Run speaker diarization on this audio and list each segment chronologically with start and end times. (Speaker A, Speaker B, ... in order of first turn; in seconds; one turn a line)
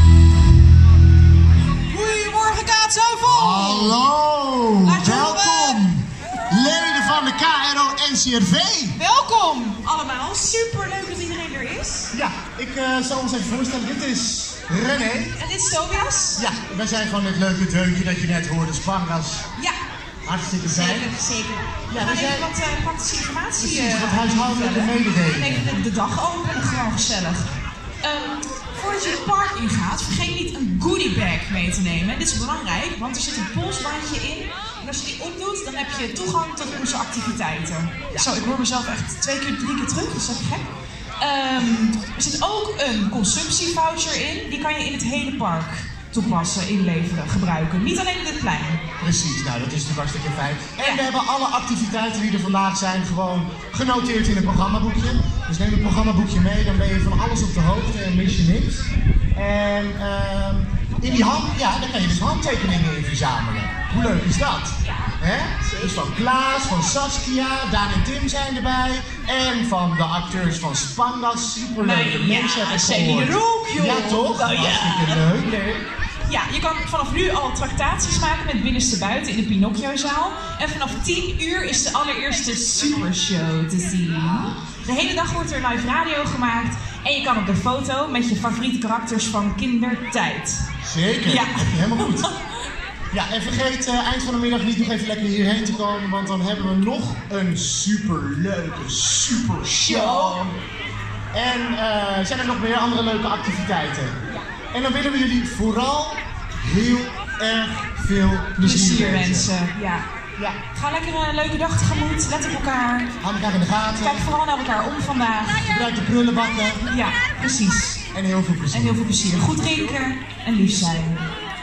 Speaker A: 1.9-4.0
Speaker B: 3.2-9.0
Speaker A: 4.8-5.8
Speaker A: 8.9-12.1
Speaker B: 12.1-15.3
Speaker A: 15.3-16.4
Speaker B: 16.4-19.4
Speaker B: 20.2-21.1
Speaker A: 20.6-27.5
Speaker B: 21.9-22.5
Speaker B: 23.6-25.7
Speaker A: 28.0-40.7
Speaker A: 41.2-48.8
Speaker B: 49.0-75.6
Speaker A: 50.8-51.0
Speaker A: 64.8-65.1
Speaker A: 71.8-75.7
Speaker A: 76.2-90.7
Speaker B: 90.8-92.3
Speaker A: 91.2-92.5
Speaker B: 93.1-100.5
Speaker A: 99.8-100.5
Speaker B: 101.3-104.2
Speaker B: 104.7-109.5
Speaker A: 108.6-110.0
Speaker A: 110.7-113.1
Speaker B: 113.2-114.3
Speaker A: 114.0-115.7
Speaker B: 115.6-116.9
Speaker A: 116.8-118.0
Speaker B: 118.1-119.0
Speaker A: 118.7-121.2